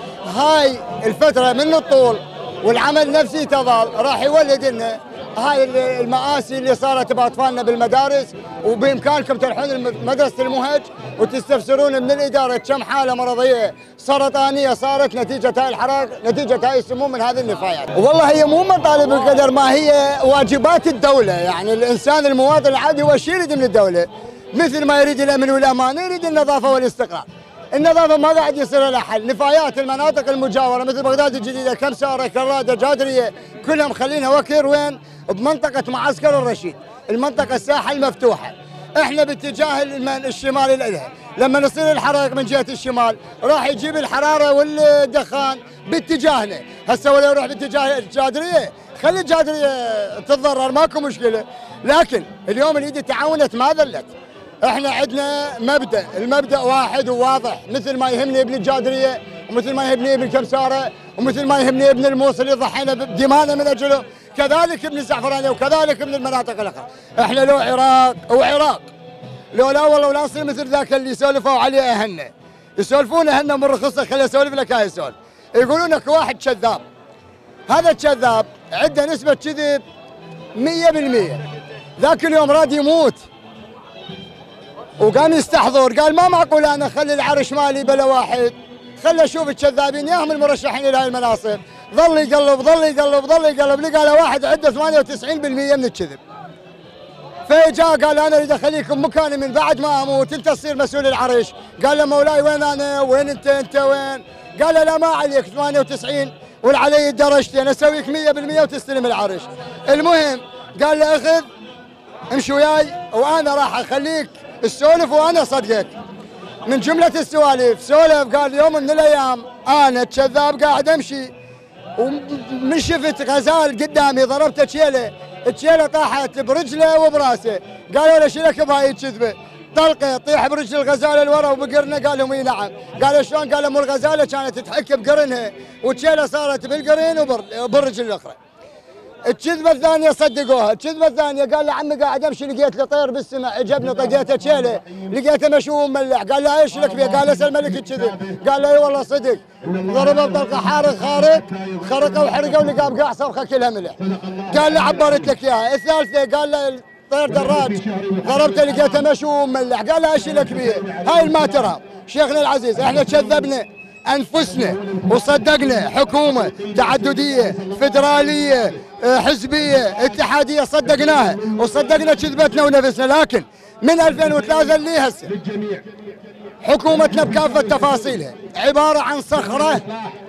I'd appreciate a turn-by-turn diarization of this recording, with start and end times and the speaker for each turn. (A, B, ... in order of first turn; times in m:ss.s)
0:00.3-0:54.1 A
0:54.6-1:08.9 A
1:09.6-1:16.8 A
1:17.7-1:19.8 A
1:20.6-1:21.4 A
1:22.0-1:23.2 A
1:25.0-1:36.2 A
1:37.5-1:51.5 A
1:52.3-1:55.9 A
1:56.6-2:01.3 A
2:02.0-2:18.4 A
2:19.3-2:34.0 A
2:34.5-2:55.3 A
2:56.6-2:59.8 A